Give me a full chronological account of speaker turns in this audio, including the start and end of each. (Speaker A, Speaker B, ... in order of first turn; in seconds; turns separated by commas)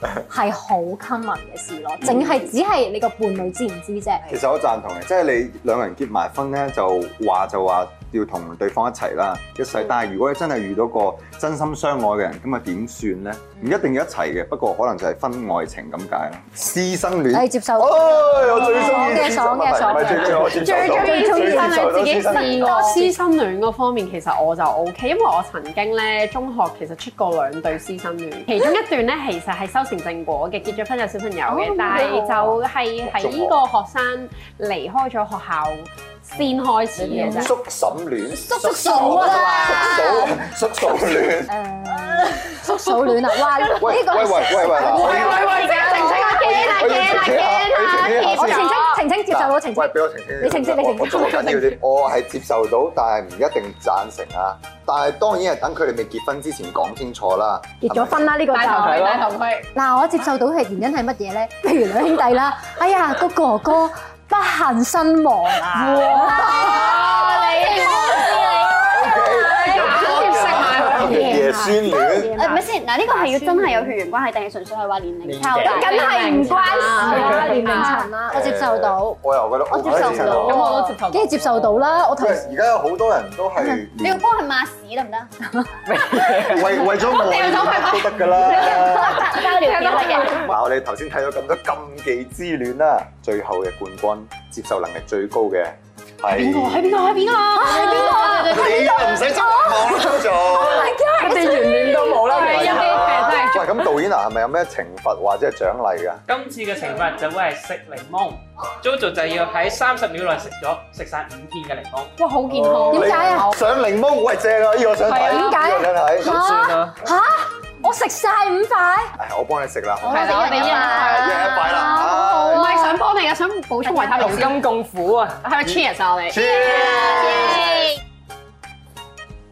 Speaker A: 0.3-4.2, Speaker B: 4.3-22.9, Speaker A: 17.3-23.1, Speaker C: 18.7-19.1, Speaker C: 19.9-37.5, Speaker A: 31.5-32.2, Speaker D: 31.8-32.2, Speaker B: 33.0-33.6, Speaker E: 37.0-37.5, Speaker B: 37.2-41.5, Speaker A: 38.6-40.1, Speaker E: 38.7-39.4, Speaker A: 41.5-51.8, Speaker C: 42.7-43.1, Speaker B: 43.7-45.6, Speaker C: 44.8-49.0, Speaker D: 45.5-46.4, Speaker B: 46.4-58.3, Speaker A: 57.8-59.2, Speaker C: 58.5-59.7, Speaker E: 58.7-59.3, Speaker A: 59.7-67.0, Speaker E: 65.7-66.3, Speaker C: 65.9-71.8, Speaker A: 67.9-68.4, Speaker B: 68.9-72.4, Speaker A: 69.5-73.9, Speaker D: 71.9-76.3, Speaker E: 75.2-77.5, Speaker A: 75.4-79.2, Speaker C: 75.7-78.1, Speaker B: 78.3-80.7, Speaker D: 79.7-80.7, Speaker A: 80.0-82.5, Speaker C: 80.3-81.8, Speaker B: 82.1-84.3, Speaker D: 83.6-85.3, Speaker E: 85.9-86.9, Speaker B: 86.3-89.3, Speaker C: 87.0-90.5, Speaker D: 88.4-90.5, Speaker A: 89.8-90.1, Speaker B: 90.4-97.3, Speaker A: 96.4-102.8, Speaker C: 96.9-98.7, Speaker B: 98.2-101.0, Speaker E: 100.5-103.3, Speaker C: 101.7-103.8, Speaker B: 102.3-106.2, Speaker F: 106.3-112.2, Speaker C: 112.2-113.7, Speaker E: 112.5-112.9, Speaker B: 112.9-116.6, Speaker A: 112.9-113.5, Speaker A: 115.1-119.1, Speaker C: 115.1-115.6, Speaker E: 116.3-116.9, Speaker B: 119.2-122.8, Speaker C: 120.0-124.7, Speaker D: 120.1-121.2, Speaker A: 120.1-123.0, Speaker A: 123.8-124.3, Speaker E: 124.1-125.8, Speaker C: 125.4-127.8, Speaker B: 126.3-127.8, Speaker D: 126.9-127.7